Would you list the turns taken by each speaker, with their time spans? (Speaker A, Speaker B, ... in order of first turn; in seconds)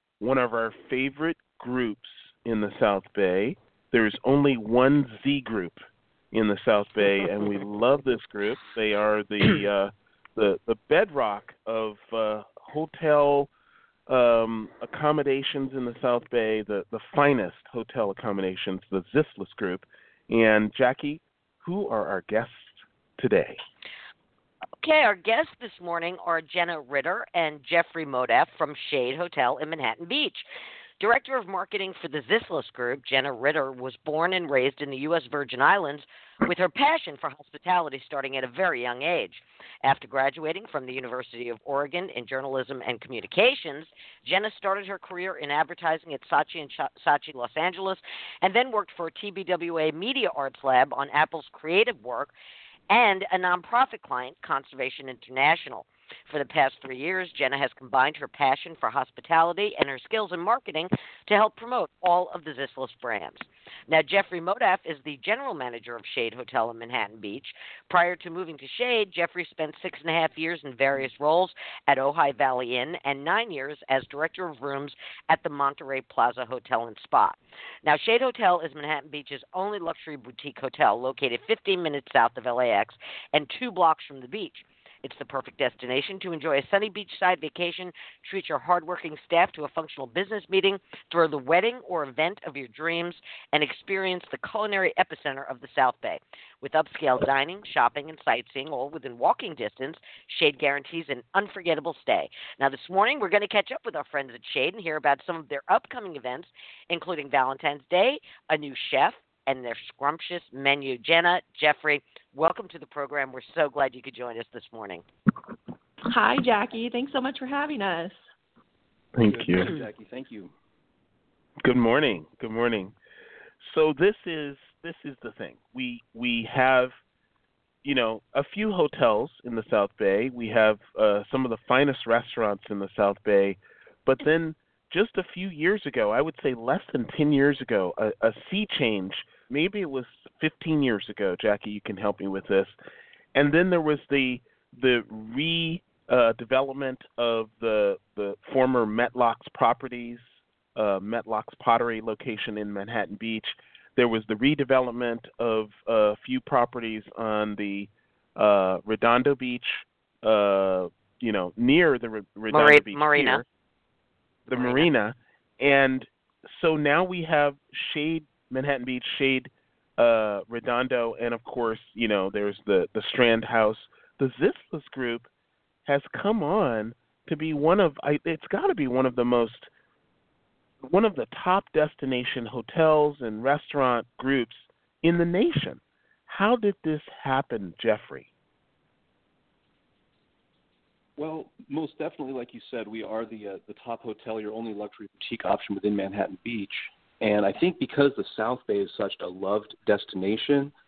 Speaker A: 0.2-13.5, 14.1-23.6, 119.2-119.7, 121.6-122.9, 123.6-126.9, 127.8-142.7, 143.3-150.2, 150.8-163.4, 164.5-175.3, 175.9-179.7, 180.8-188.3
Speaker B: 24.8-30.4, 31.0-52.3, 52.9-115.0, 162.5-163.4, 164.5-164.9
Speaker C: 116.1-118.2
Speaker D: 119.2-120.5, 191.2-200.7